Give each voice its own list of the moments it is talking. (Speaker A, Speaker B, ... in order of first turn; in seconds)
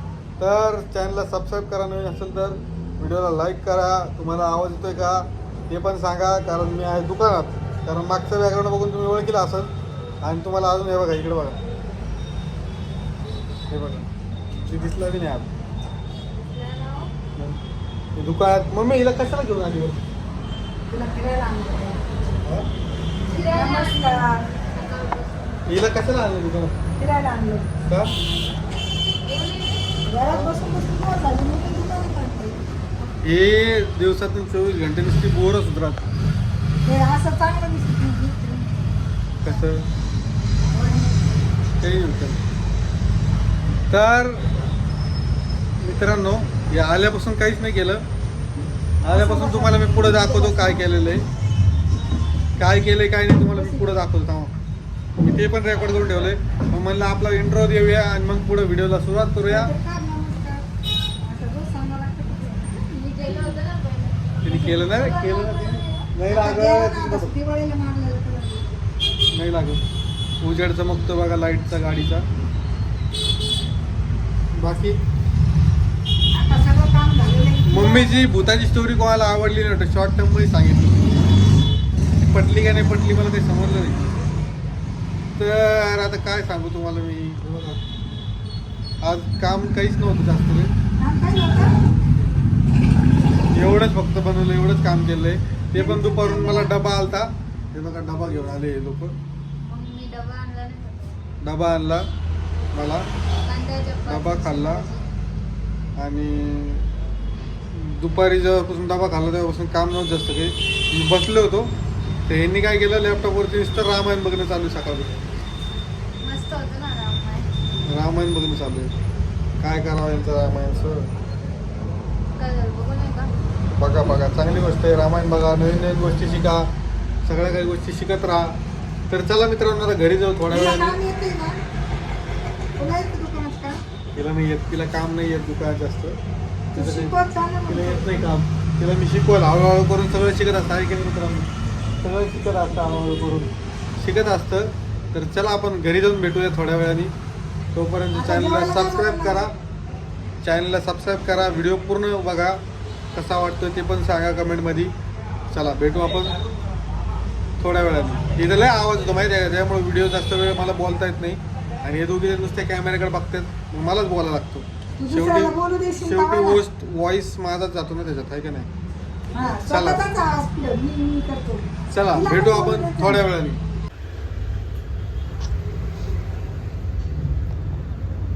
Speaker A: 0.4-11.6, 13.7-14.1, 14.7-15.5, 18.1-20.0, 25.6-26.7, 27.9-28.1, 30.3-30.5, 33.2-36.0, 39.4-39.9, 41.8-42.4, 43.9-44.4, 45.8-48.0, 49.0-51.2, 52.6-54.5, 55.2-59.7, 64.4-67.3, 69.3-69.8, 70.4-72.2, 74.5-75.0, 77.7-81.2, 82.2-84.1, 85.4-87.8, 89.0-90.7, 93.5-99.1, 101.4-102.1, 102.7-103.1, 104.1-104.8, 106.0-106.8, 107.7-111.7, 112.3-115.2, 117.8-118.9, 119.6-121.1, 123.8-126.7, 127.2-128.6, 129.1-131.0, 134.1-136.2, 136.7-141.4, 142.0-147.1, 147.7-149.5, 150.4-152.6, 153.1-154.9, 155.5-156.4, 157.6-168.7, 169.6-170.0, 171.9-173.6
Speaker B: 16.5-17.1, 23.3-26.0, 29.2-29.9, 62.9-65.3, 99.6-101.2, 103.4-105.1, 116.2-117.5, 122.3-123.3
Speaker C: 20.9-22.0, 23.5-24.4, 27.0-27.7, 30.0-32.6, 36.8-38.8, 40.6-41.4, 49.0-50.9, 53.5-53.9, 59.5-60.6, 61.2-63.6, 64.5-68.8, 76.3-78.2, 91.0-91.8, 95.7-96.7, 130.5-131.6, 132.8-133.8, 136.7-138.3, 148.1-149.5, 165.0-166.6, 169.3-173.2